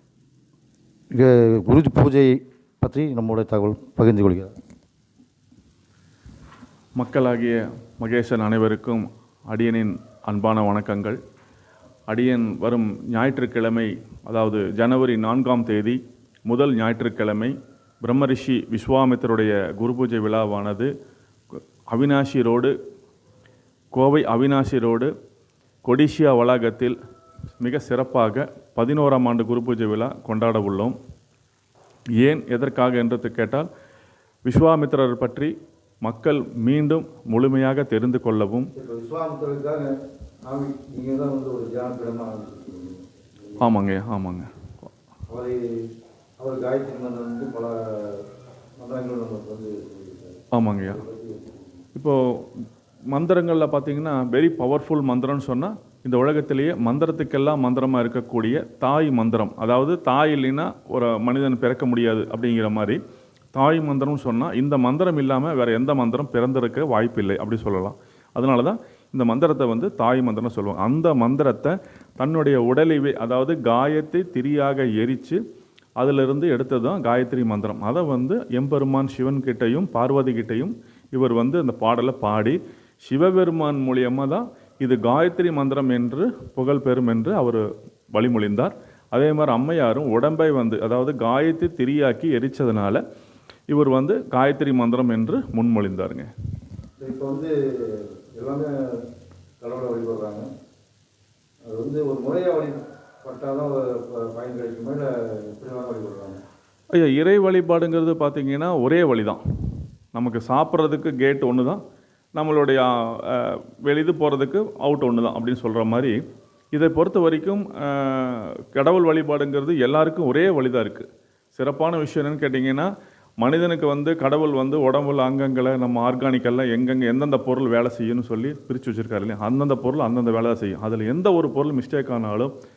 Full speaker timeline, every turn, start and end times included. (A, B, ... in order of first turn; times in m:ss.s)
0:01.1-0:04.5 A
0:07.0-0:11.2 B
0:12.1-0:20.9 B
0:21.9-0:22.7 B
0:23.9-0:25.1 B
0:25.8-0:27.0 B
0:27.6-0:31.0 B
0:32.2-0:33.7 B
0:34.4-0:35.5 B
0:36.0-0:38.7 B
0:38.8-0:39.9 A
0:40.5-0:43.7 A
0:43.6-0:44.5 B
0:45.3-0:45.6 A
0:46.4-0:48.2 A
0:48.8-0:51.8 A
0:50.5-0:51.0 B
0:52.0-0:52.5 B
0:53.1-1:03.0 B
1:03.5-1:15.4 B
1:16.0-1:33.0 B
1:33.7-1:36.3 B
1:37.0-1:39.0 A
1:39.6-1:40.5 A
1:41.7-1:46.4 A
1:46.9-1:51.8 B
1:52.4-1:56.2 B
1:56.7-2:12.5 B